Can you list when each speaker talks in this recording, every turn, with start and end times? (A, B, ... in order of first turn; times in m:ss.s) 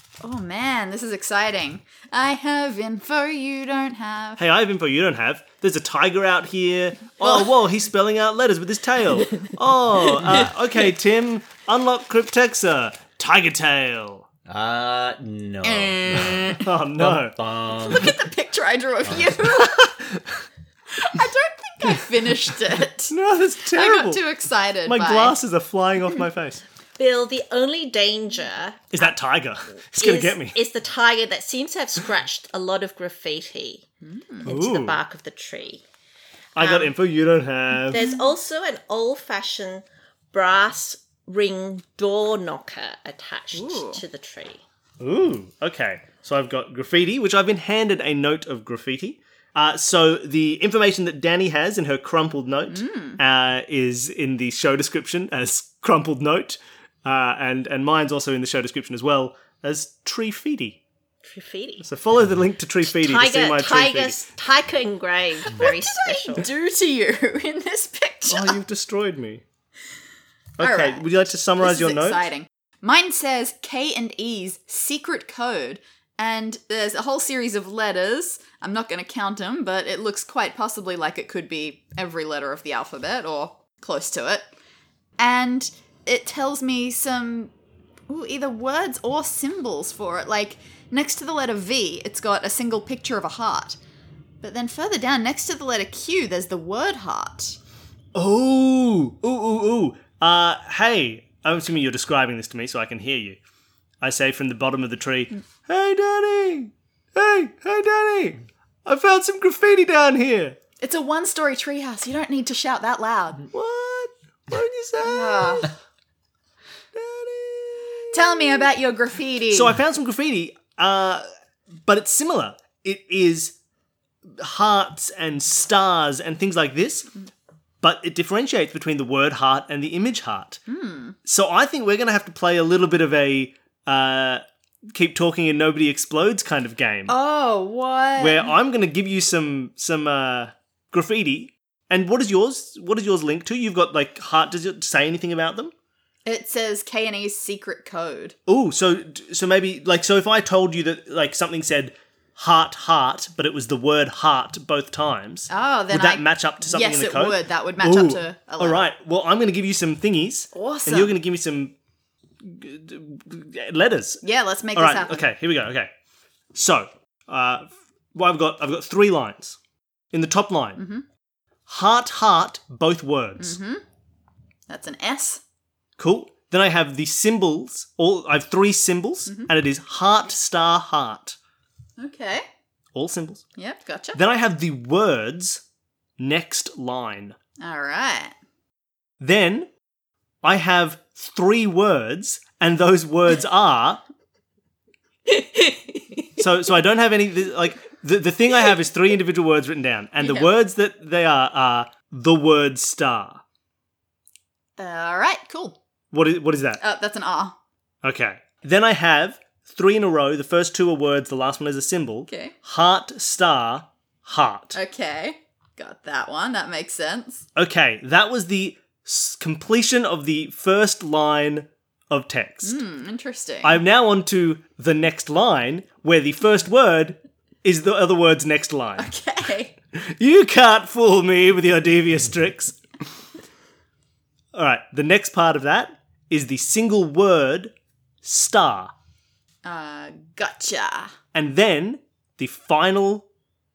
0:00.2-0:04.4 A
0:04.4-0:14.2 B
0:07.2-0:07.5 A
0:14.4-0:18.2 C
0:15.6-0:16.6 A
0:16.6-0:17.4 B
0:17.7-0:19.9 A
0:19.0-0:19.4 C
0:19.6-0:20.4 B
0:20.9-0:23.1 A
0:23.1-0:24.2 B
0:23.7-0:25.4 A
0:24.8-0:26.6 B
0:27.0-0:29.1 D
0:28.9-0:30.6 B
0:30.0-0:33.8 D
0:34.0-0:34.5 A
0:34.4-0:35.8 D
0:34.4-0:35.0 B
0:36.6-0:38.0 B
0:36.6-0:36.9 D
0:37.9-0:44.6 D
0:37.9-0:38.3 A
0:43.5-0:44.0 A
0:45.0-1:00.8 B
0:52.7-0:53.2 A
1:01.2-1:01.8 D
1:01.8-1:04.2 B
1:02.8-1:06.5 D
1:05.4-1:08.6 A
1:08.3-1:09.4 B
1:10.6-1:12.3 B
1:10.6-1:11.0 A
1:11.6-1:24.4 A
1:25.2-1:27.5 A
1:28.1-1:33.8 A
1:34.4-1:37.6 A
1:38.1-1:43.4 B
1:44.0-1:50.6 B
1:50.8-1:53.4 A
1:53.5-1:55.7 B
1:55.0-1:55.7 A
1:56.9-1:58.7 B
1:58.1-1:59.8 A
1:59.5-2:01.3 B
2:01.8-2:03.6 B
2:04.3-2:07.1 B
2:07.8-2:10.6 B
2:10.7-2:11.2 A
2:11.2-2:17.1 B
2:17.1-2:18.5 A
2:18.2-2:25.7 B
2:26.2-2:28.4 A
2:28.5-2:41.7 B
2:35.5-2:38.8 A
2:40.5-2:41.1 A
2:42.4-2:44.2 B
2:44.2-2:45.3 A
2:44.7-2:45.9 B
2:46.5-2:49.6 B
2:50.1-2:50.8 B
2:50.8-2:51.0 A
2:51.7-2:53.6 B
2:53.4-2:53.8 A
2:54.7-2:55.4 A
2:56.0-3:01.4 B
3:02.0-3:02.4 A
3:02.9-3:03.4 B
3:03.6-3:04.2 A
3:04.1-3:05.6 B
3:06.2-3:07.4 B
3:07.6-3:08.3 A
3:09.2-3:09.7 B
3:10.4-3:14.0 B
3:16.3-3:23.4 B
3:20.2-3:20.5 A
3:24.8-3:25.8 A
3:26.1-3:26.8 B
3:26.8-3:27.6 A
3:28.0-3:34.8 B
3:32.3-3:32.5 A
3:34.7-3:37.4 A
3:37.6-3:42.8 B
3:42.6-3:43.8 A
3:43.6-3:49.1 B
3:49.0-3:49.7 A
3:49.9-3:52.8 B
3:54.5-3:58.9 B
3:59.6-4:01.1 A
4:01.3-4:03.2 B